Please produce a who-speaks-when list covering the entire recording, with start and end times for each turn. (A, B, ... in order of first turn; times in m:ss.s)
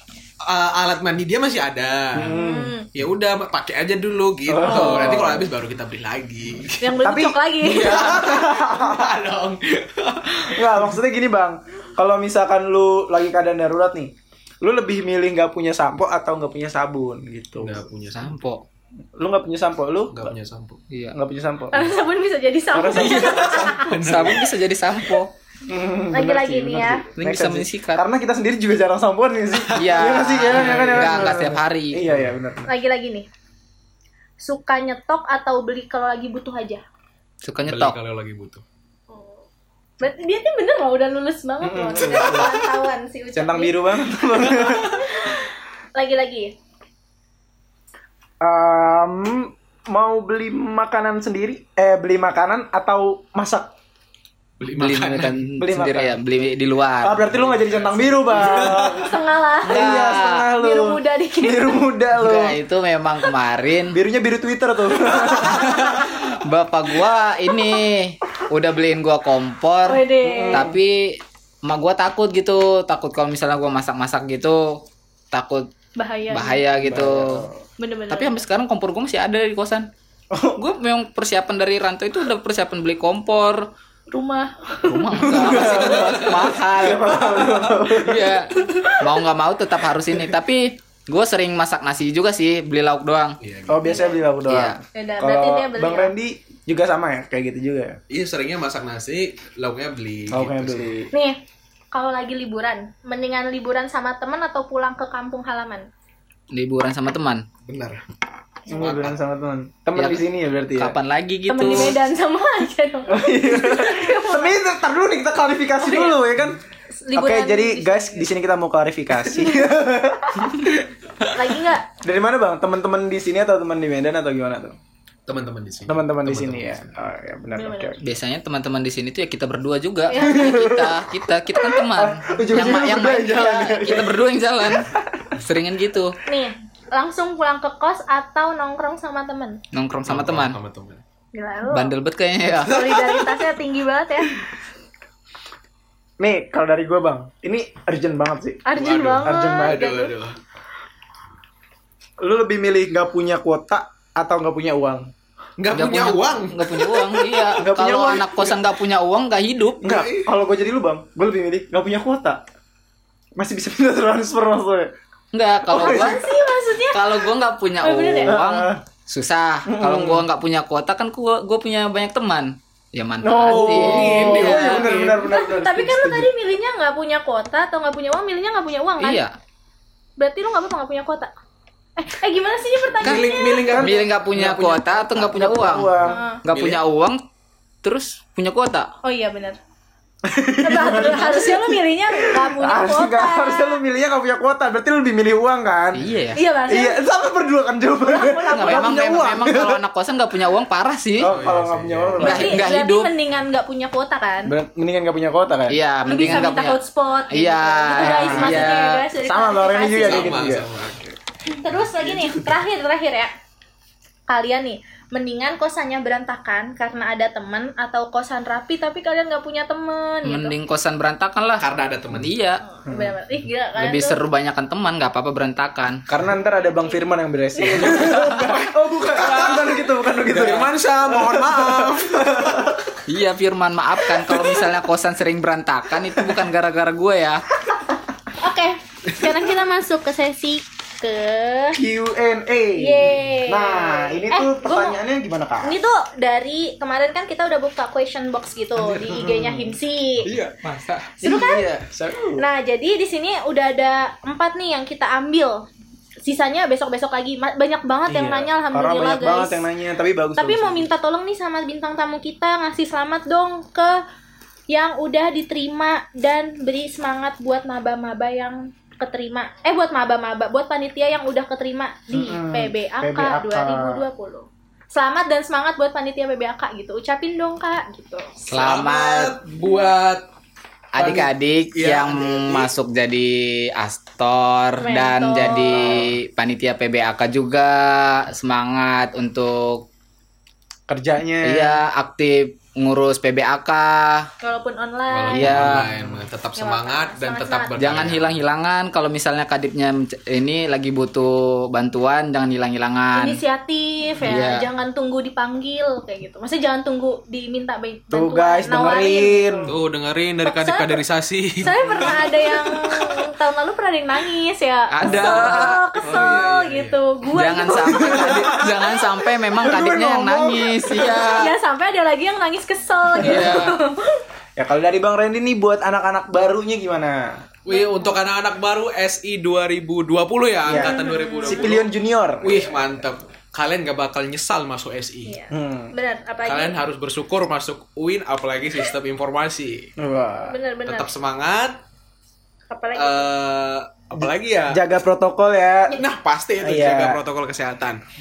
0:00.4-0:02.4 A
0:02.2-0:02.7 B
0:02.3-0:02.9 C
0:02.9-0:07.0 A
0:04.5-0:05.5 B
0:04.7-0:05.1 C
0:06.8-0:08.3 C
0:07.0-0:09.2 B
0:07.6-0:10.9 A
0:10.4-0:17.8 B
0:17.6-0:18.4 A
0:18.1-0:18.6 D
0:19.2-0:20.3 B
0:20.1-0:20.8 A
0:20.9-0:21.2 D
0:21.1-0:21.9 B
0:21.7-0:24.0 C
0:22.7-0:23.8 B
0:22.9-0:24.5 A
0:24.0-0:25.3 D
0:25.7-0:32.7 B
0:26.1-0:27.1 C
0:27.2-0:28.0 D
0:29.5-0:31.4 A
0:29.8-0:32.0 D
0:32.7-0:33.3 C
0:34.4-0:36.8 C
0:37.4-0:38.0 D
0:37.7-0:38.6 A
0:39.1-0:39.4 C
0:40.0-0:46.6 C
0:41.6-0:42.6 B
0:43.3-0:45.1 B
0:44.5-0:44.8 A
0:48.4-0:53.7 B
0:54.6-0:55.4 A
0:54.7-0:57.2 D
0:55.6-0:56.2 B
0:57.0-1:02.6 B
0:57.2-0:59.1 A
0:58.9-1:01.8 C
0:59.7-1:00.5 D
1:02.2-1:04.0 D
1:03.9-1:06.0 B
1:05.4-1:15.7 D
1:09.9-1:10.7 C
1:10.2-1:10.8 B
1:16.0-1:16.6 C
1:16.3-1:17.5 D
1:16.8-1:17.6 B
1:17.8-1:18.4 C
1:18.1-1:19.9 D
1:20.3-1:20.6 B
1:20.6-1:23.7 D
1:24.1-1:25.3 C
1:24.8-1:33.4 D
1:25.2-1:28.4 B
1:25.3-1:26.6 A
1:27.3-1:27.7 A
1:28.7-1:29.0 C
1:33.4-1:34.1 A
1:33.7-1:38.0 B
1:34.5-1:34.8 D
1:35.0-1:36.1 C
1:38.1-1:40.9 A
1:40.3-1:41.1 B
1:41.1-1:41.4 C
1:41.9-1:45.9 C
1:46.5-1:47.5 D
1:47.7-1:48.0 A
1:48.7-1:51.0 B
1:48.7-1:49.2 A
1:50.0-1:50.2 D
1:50.8-1:52.0 D
1:51.5-1:54.6 C
1:53.1-1:56.6 B
1:55.8-1:56.2 C
1:56.9-1:58.3 C
1:57.2-2:00.7 B
2:01.3-2:01.9 C
2:02.0-2:04.8 B
2:05.3-2:06.9 A
2:05.9-2:08.0 B
2:07.5-2:08.0 C
2:08.0-2:16.2 D
2:10.1-2:10.6 C
2:10.1-2:15.3 B
2:16.3-2:19.6 C
2:19.7-2:20.6 D
2:20.1-2:21.0 A
2:21.3-2:21.9 C
2:21.7-2:23.1 D
2:22.7-2:24.4 C
2:26.2-2:28.6 B
2:28.6-2:30.1 C
2:28.7-2:30.4 A
2:29.2-2:29.8 B
2:32.2-2:35.1 B
2:35.6-2:37.5 A
2:35.7-2:40.0 D
2:37.6-2:38.5 B
2:39.8-2:42.4 B
2:39.8-2:40.3 A
2:43.4-2:44.9 B
2:45.3-2:46.2 D
2:45.7-2:46.2 B
2:45.7-2:47.3 C
2:46.9-2:55.1 D
2:47.8-2:48.4 C
2:48.2-2:48.8 B
2:49.7-2:50.3 B
2:53.2-2:56.3 B
2:53.5-2:55.2 A
2:55.2-2:59.2 C
2:59.0-2:59.3 D
3:00.2-3:01.3 C
3:02.0-3:03.7 C
3:03.0-3:05.4 A
3:03.0-3:07.2 D
3:03.6-3:04.0 B
3:05.2-3:06.2 B
3:06.0-3:06.8 A
3:06.1-3:06.4 C
3:07.8-3:08.9 D
3:09.0-3:09.6 C
3:10.2-3:16.1 B
3:10.6-3:13.8 C
3:15.9-3:16.4 D
3:16.3-3:17.0 C
3:16.7-3:19.8 B
3:18.0-3:19.2 C
3:18.5-3:21.3 D
3:21.2-3:22.7 B
3:21.2-3:22.4 A
3:22.2-3:23.1 D
3:22.2-3:24.5 C
3:24.5-3:25.8 B
3:25.7-3:29.0 D
3:26.0-3:30.4 C
3:27.9-3:31.1 B
3:30.0-3:31.1 A
3:31.5-3:33.3 C
3:31.7-3:32.5 A
3:34.3-3:40.6 C
3:40.2-3:42.6 D
3:41.6-3:42.3 A
3:42.6-3:44.2 C
3:42.9-3:43.2 B
3:43.8-3:46.0 D
3:46.1-3:52.9 B
3:46.6-3:47.0 C
3:47.5-3:48.1 C
3:47.8-3:52.8 A
3:53.1-3:57.4 D
3:58.4-4:01.8 C
4:01.8-4:05.8 B
4:02.8-4:05.0 C
4:05.6-4:10.3 C
4:08.9-4:09.8 B
4:10.2-4:11.2 A
4:11.2-4:12.4 B
4:11.2-4:11.7 C
4:12.4-4:15.6 C
4:16.2-4:19.6 C
4:18.1-4:20.9 B
4:20.4-4:24.0 C
4:24.7-4:38.5 C
4:32.1-4:34.0 B
4:38.5-4:39.4 D
4:38.5-4:40.3 A
4:40.9-4:49.9 D
4:41.0-4:42.7 A
4:44.8-4:46.0 C
4:50.9-4:51.8 B
4:51.4-4:54.3 D
4:54.4-4:55.8 C
4:55.1-4:58.4 A
4:55.3-4:55.9 D
4:55.8-4:56.2 B
4:56.6-4:57.9 C
4:57.8-5:03.4 D
5:03.2-5:09.7 C
5:04.2-5:04.7 D
5:08.1-5:09.7 B
5:09.7-5:12.9 A
5:10.5-5:11.0 C
5:11.6-5:18.6 C
5:14.9-5:15.8 D
5:15.0-5:15.6 B
5:16.0-5:17.0 A
5:17.3-5:21.5 D
5:17.7-5:21.4 B
5:21.2-5:24.2 C
5:23.2-5:23.8 D
5:23.2-5:23.7 B
5:24.6-5:27.4 B
5:27.7-5:31.9 A
5:27.7-5:28.1 C
5:30.6-5:32.9 B
5:30.7-5:31.7 C
5:32.4-5:35.4 A
5:35.3-5:36.8 C
5:35.5-5:35.9 B
5:36.4-5:39.9 A
5:40.0-5:40.6 B
5:40.5-5:41.1 C
5:40.9-5:41.8 A
5:42.7-5:43.3 C
5:43.0-5:44.8 A
5:44.2-5:46.0 B
5:46.0-5:48.0 A
5:46.6-5:47.2 B